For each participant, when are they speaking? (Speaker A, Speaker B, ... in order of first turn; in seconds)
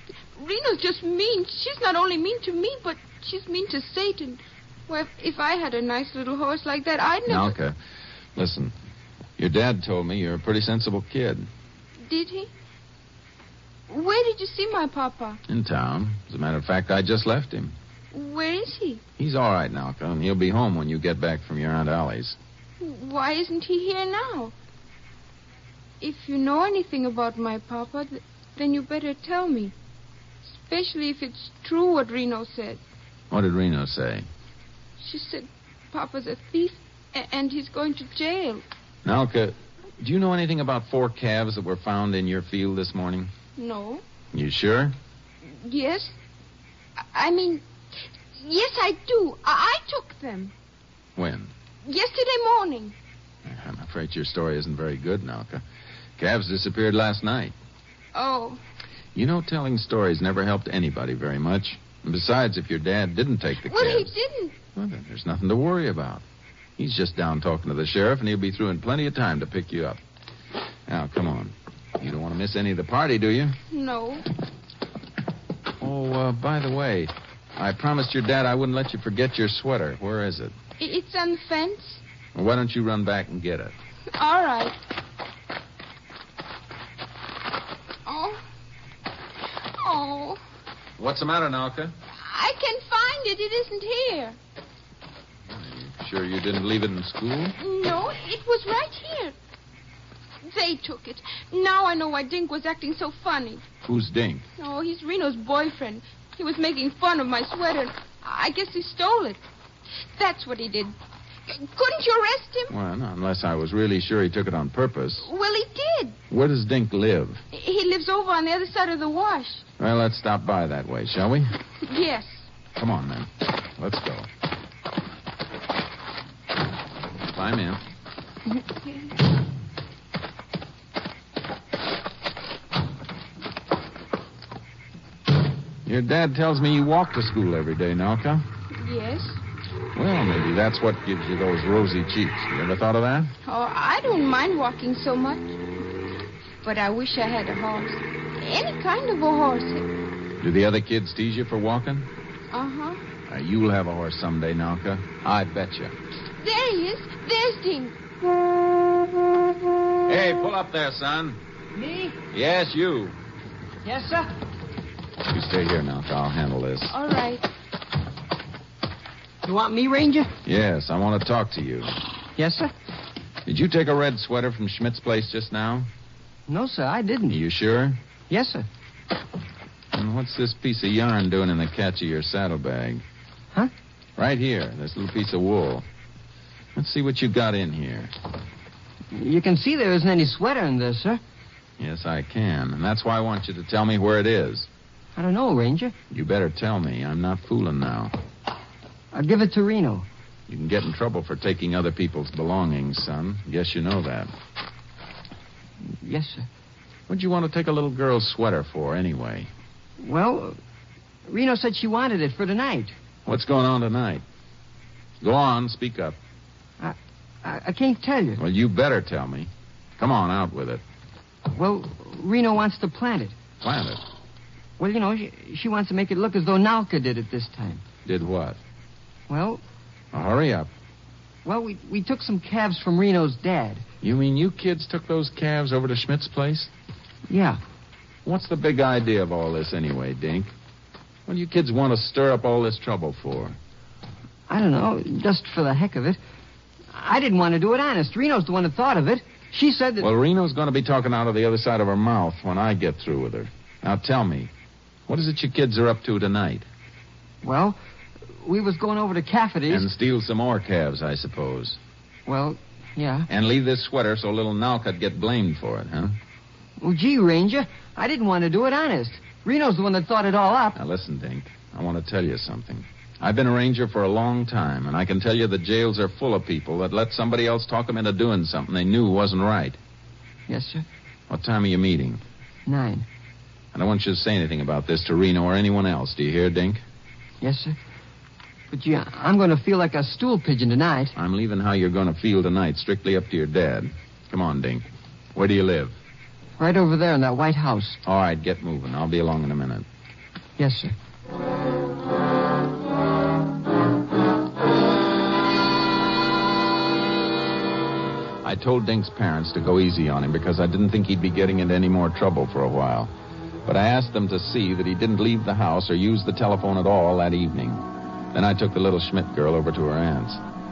Speaker A: 0.3-7.5, 12.0-12.5, 13.9-15.4, 18.1-19.0, 22.8-24.5, 26.0-29.7, 30.5-32.8, 35.0-38.6, 43.6-44.0, 45.5-46.1, 47.1-47.6, 48.4-50.5, 51.9-52.9, 58.1-58.6, 63.6-64.5, 73.7-74.2, 80.8-82.0, 84.1-84.7, 88.0-88.4, 89.7-90.4, 92.2-94.4, 97.6-99.3, 100.4-103.6, 104.6-109.4, 110.2-110.9, 111.5-112.7, 115.2-116.2, 117.5-119.6, 121.8-122.5, 128.5-129.1, 138.8-139.4, 143.4-145.6, 146.6-149.9, 152.5-153.0, 156.4-157.9, 166.9-167.4
Speaker B: 7.2-7.8, 8.3-8.7, 9.4-11.5, 15.5-17.7, 19.2-22.4, 33.3-34.3, 39.0-43.3, 44.3-45.0, 51.1-51.5, 53.4-55.6, 56.2-57.5, 59.1-64.2, 64.7-66.2, 66.8-70.0, 70.9-73.6, 75.8-80.5, 82.3-83.7, 91.0-91.9, 95.5-97.5, 103.8-104.4, 112.7-115.3, 116.3-117.4, 119.8-121.5, 122.8-124.3, 127.3-127.8, 135.8-138.4, 139.9-143.3, 150.4-152.1, 153.3-155.9, 160.1-161.4, 162.3-163.2, 165.3-166.9, 170.4-171.9, 173.4-175.9, 177.3-178.0, 179.9-183.0, 184.2-185.8, 186.7-188.1, 191.8-194.7, 196.1-198.1, 200.5-204.3, 207.1-209.5, 213.2-214.2, 215.2-216.2, 218.4-220.8, 223.6-224.0, 228.1-228.6, 230.1-230.7, 234.0-236.7, 238.2-240.5, 241.2-243.6, 250.0-254.5, 255.1-256.7, 259.7-261.8, 263.3-266.2, 270.7-279.8, 281.3-282.2, 283.7-286.8, 291.1-296.0, 298.0-299.9, 308.4-313.1, 313.6-320.4
Speaker C: 161.8-162.1, 163.8-164.2, 169.4-170.3, 172.4-172.7, 176.5-177.4, 178.3-178.7, 189.1-191.2, 195.2-195.9, 199.1-200.1, 205.9-206.5, 210.0-210.6, 211.3-212.9, 216.8-218.4, 221.5-223.3, 224.8-227.8, 229.3-229.6, 231.4-233.8, 237.3-237.6, 244.5-246.2, 246.9-250.1, 257.4-257.8, 258.4-259.8, 262.3-263.3, 266.8-270.8, 280.5-280.8, 282.7-283.0, 287.4-287.8, 288.7-291.1, 296.6-298.0, 300.6-300.9